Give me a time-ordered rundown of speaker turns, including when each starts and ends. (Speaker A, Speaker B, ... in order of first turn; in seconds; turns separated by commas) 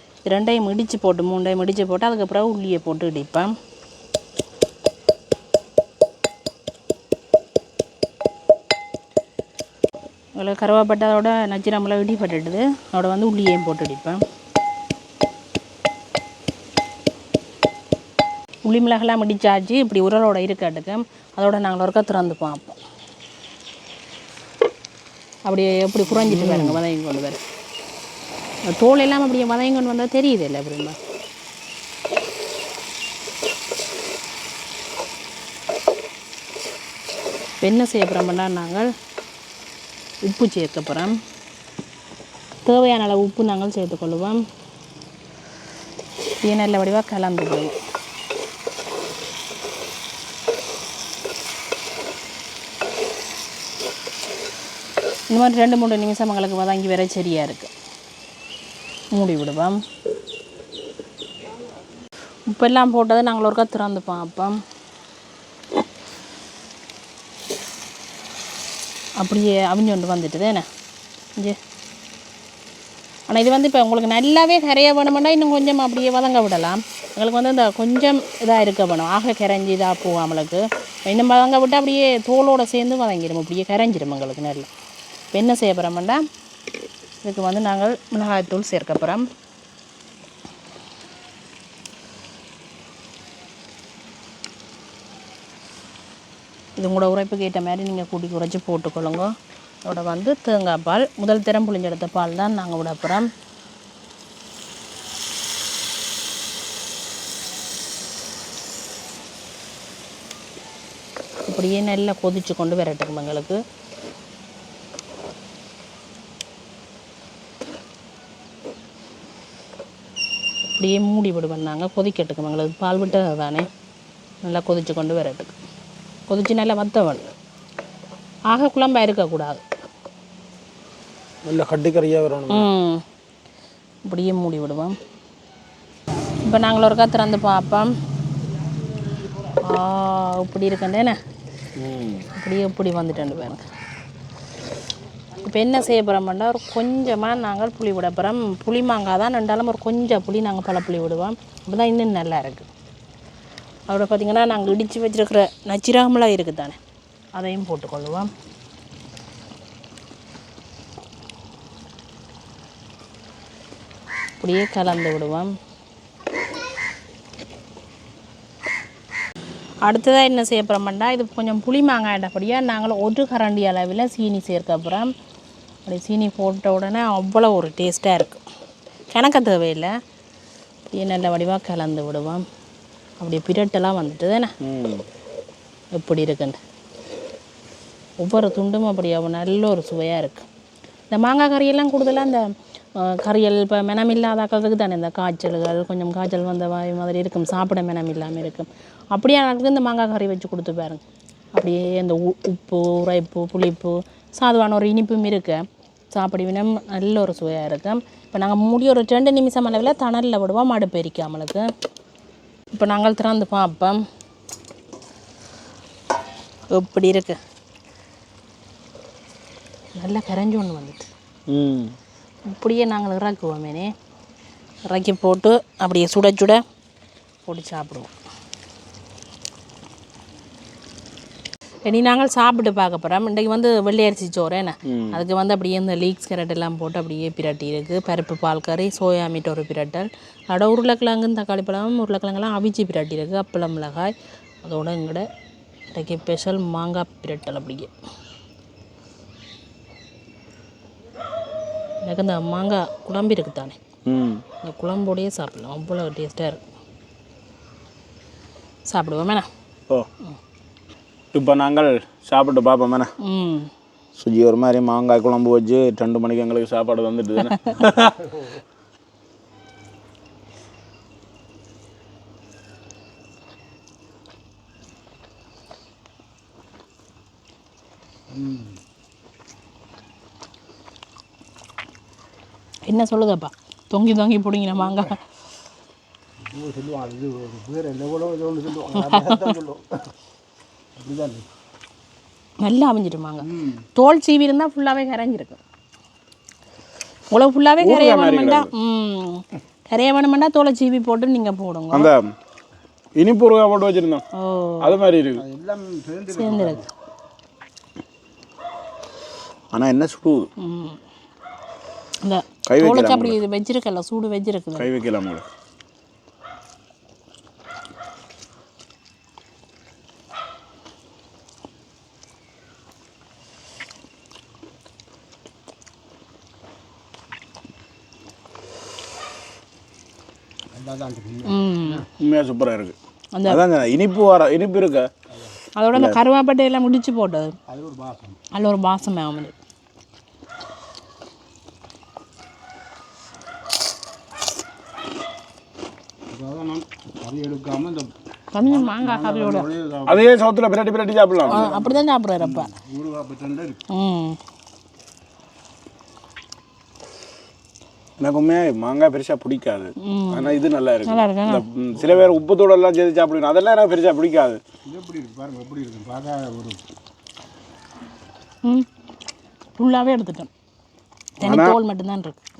Speaker A: 0.3-3.5, Speaker A: 10.3-14.2, Speaker A: 18.6-22.8, Speaker A: 25.4-27.4, Speaker B: 26.1-26.8, Speaker A: 28.7-31.0, Speaker A: 37.6-38.9, Speaker A: 40.2-41.1, Speaker A: 42.6-44.4, Speaker A: 46.4-47.7, Speaker A: 55.3-57.7, Speaker A: 59.1-59.8, Speaker A: 62.5-64.5, Speaker A: 69.2-70.6, Speaker A: 73.3-84.7, Speaker A: 85.3-86.2, Speaker A: 87.2-89.2, Speaker A: 96.8-99.3, Speaker A: 99.8-103.3, Speaker A: 111.5-113.6, Speaker A: 120.8-123.7, Speaker A: 124.4-125.5, Speaker A: 126.3-127.3, Speaker A: 128.5-129.6, Speaker B: 131.4-132.7, Speaker A: 132.5-133.0, Speaker A: 134.0-134.9, Speaker A: 136.4-137.9, Speaker A: 139.5-141.2, Speaker B: 141.8-142.3, Speaker A: 142.4-143.6, Speaker A: 145.4-152.7, Speaker A: 153.9-156.8, Speaker A: 157.3-158.3, Speaker A: 164.4-165.5, Speaker A: 169.8-175.1, Speaker A: 175.8-178.4, Speaker A: 179.1-179.9, Speaker A: 180.9-182.4, Speaker A: 183.2-184.5, Speaker B: 184.6-185.0, Speaker A: 185.9-186.6, Speaker A: 188.2-190.5, Speaker A: 191.1-201.0, Speaker A: 201.6-211.7, Speaker A: 212.7-214.0, Speaker A: 216.7-217.4, Speaker A: 219.9-221.1, Speaker B: 221.5-221.9, Speaker A: 222.5-223.9, Speaker A: 224.9-226.6, Speaker A: 227.4-228.1, Speaker A: 231.8-245.3, Speaker B: 234.9-235.2, Speaker A: 245.9-247.9, Speaker A: 252.0-253.8, Speaker B: 254.1-254.4, Speaker A: 254.6-256.6, Speaker A: 258.9-259.5, Speaker B: 261.3-263.1, Speaker A: 263.2-263.7, Speaker B: 264.1-268.1, Speaker C: 268.2-268.6, Speaker C: 278.3-278.8, Speaker A: 282.9-285.2, Speaker C: 286.4-290.0, Speaker A: 288.9-289.5, Speaker C: 291.0-291.5, Speaker A: 292.6-295.6, Speaker C: 293.5-293.8, Speaker A: 297.3-302.1, Speaker B: 297.8-298.7, Speaker B: 301.9-302.3, Speaker B: 303.1-304.2, Speaker A: 304.4-304.9, Speaker B: 304.8-305.4, Speaker C: 305.4-306.9, Speaker A: 306.3-306.8, Speaker B: 309.7-310.5, Speaker A: 310.6-311.0, Speaker A: 312.2-314.9, Speaker B: 312.6-313.4, Speaker B: 314.8-315.5, Speaker C: 330.7-332.1, Speaker A: 331.4-332.1, Speaker B: 332.2-332.9, Speaker A: 333.3-333.6, Speaker B: 333.4-335.1, Speaker C: 335.3-335.6, Speaker A: 335.8-337.5, Speaker B: 335.9-336.2, Speaker C: 337.7-338.4, Speaker A: 338.5-339.5, Speaker C: 346.3-350.3, Speaker A: 348.5-349.7, Speaker B: 350.1-351.7, Speaker A: 351.5-352.7, Speaker C: 351.5-353.8, Speaker A: 353.9-354.4, Speaker B: 358.2-364.6, Speaker A: 360.0-360.5, Speaker A: 361.1-361.6, Speaker C: 364.8-366.8, Speaker A: 369.8-370.5, Speaker A: 371.4-372.4, Speaker B: 371.4-371.8